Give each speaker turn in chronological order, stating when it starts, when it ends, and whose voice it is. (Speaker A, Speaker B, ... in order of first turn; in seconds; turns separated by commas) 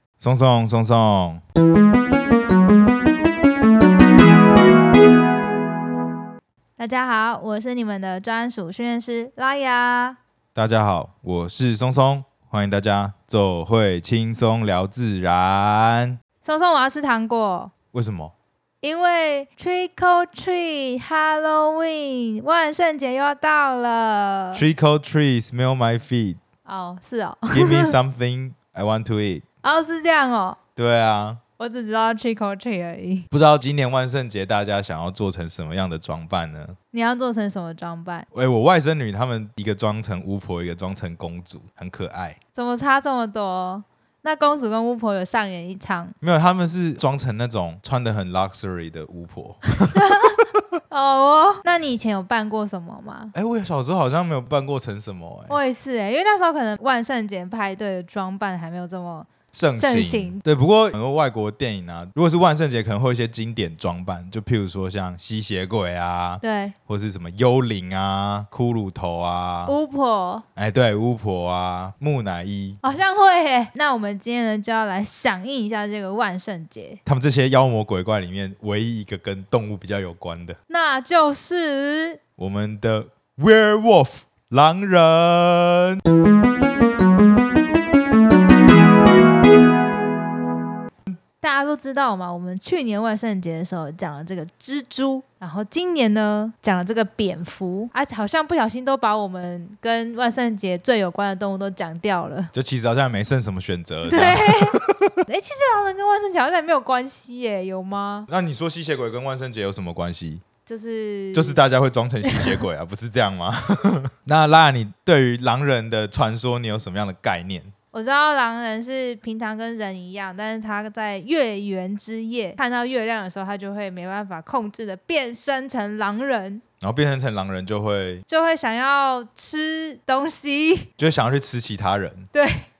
Speaker A: 0.2-1.4, Speaker B: 6.8-10.2, Speaker A: 10.5-16.2, Speaker B: 16.4-17.7, Speaker A: 17.9-18.3, Speaker B: 18.8-24.6, Speaker A: 24.5-26.4, Speaker B: 26.6-28.0, Speaker A: 27.5-29.4, Speaker B: 29.6-30.6, Speaker A: 30.8-31.4, Speaker B: 31.6-33.3, Speaker A: 33.3-36.8, Speaker B: 36.9-38.3, Speaker A: 38.3-42.4, Speaker B: 42.5-46.1, Speaker A: 46.2-50.0, Speaker B: 49.8-50.4, Speaker B: 50.9-53.3, Speaker A: 53.3-55.6, Speaker B: 55.5-60.4, Speaker A: 59.5-69.7, Speaker B: 66.4-66.7, Speaker B: 69.7-70.4, Speaker A: 70.5-72.8, Speaker B: 72.8-77.0, Speaker A: 77.0-80.6, Speaker B: 80.7-82.2, Speaker A: 82.4-86.0, Speaker B: 91.4-102.5, Speaker A: 102.5-105.2, Speaker B: 104.0-108.3, Speaker A: 108.3-110.4, Speaker B: 110.7-111.6, Speaker A: 111.3-117.7, Speaker B: 112.2-112.5, Speaker B: 117.9-126.6, Speaker A: 126.8-128.2, Speaker B: 128.3-130.9, Speaker A: 131.0-132.3, Speaker B: 132.3-132.7